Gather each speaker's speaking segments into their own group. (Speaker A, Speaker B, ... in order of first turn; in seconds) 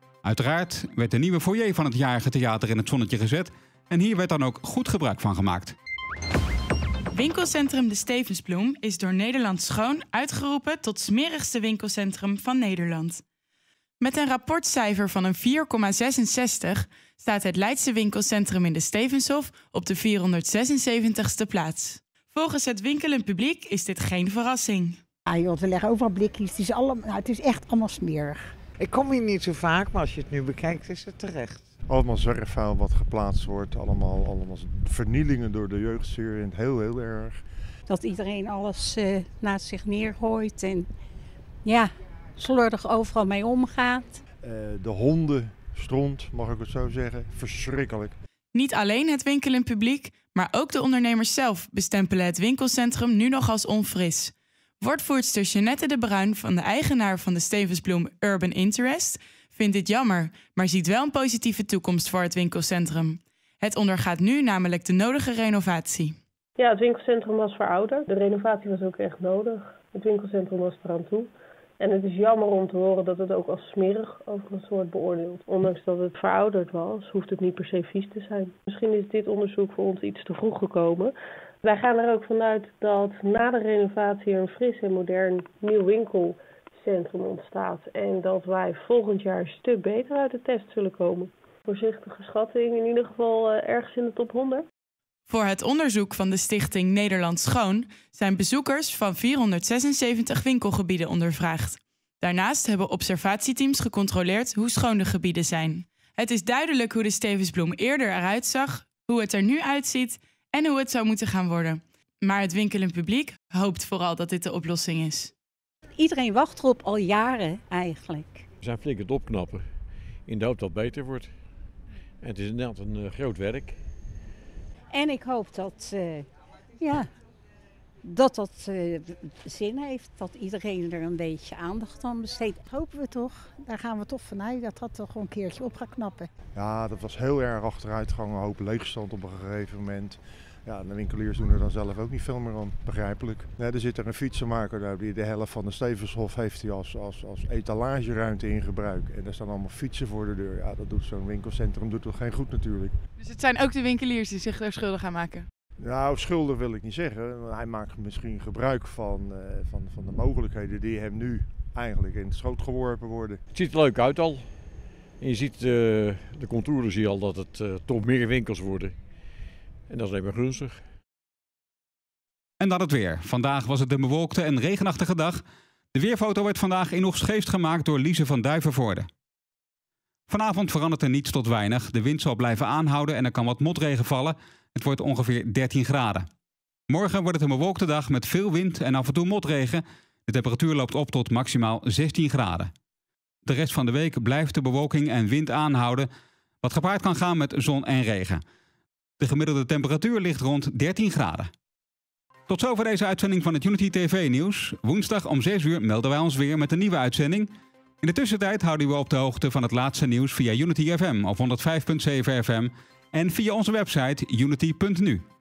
Speaker A: 0.2-5.7, 172.6-175.4, 175.9-179.1, 180.3-186.2, 186.9-192.7, 193.4-196.1, 196.6-198.4, 199.2-201.5, 202.5-207.5, 208.0-215.2
Speaker B: 7.1-13.2, 14.0-25.0, 48.5-66.2, 95.3-115.3, 153.2-155.5
Speaker C: 25.3-28.5, 37.9-40.9, 41.6-44.2, 116.0-118.4, 124.9-126.2, 126.8-127.1, 128.0-136.3
Speaker D: 28.8-31.7
Speaker E: 31.9-37.4, 44.4-48.1, 136.5-152.9, 155.8-163.4
Speaker F: 66.6-94.7
Speaker G: 118.6-119.6, 120.2-121.3, 122.2-123.8, 163.5-164.6, 165.2-168.9, 169.9-170.8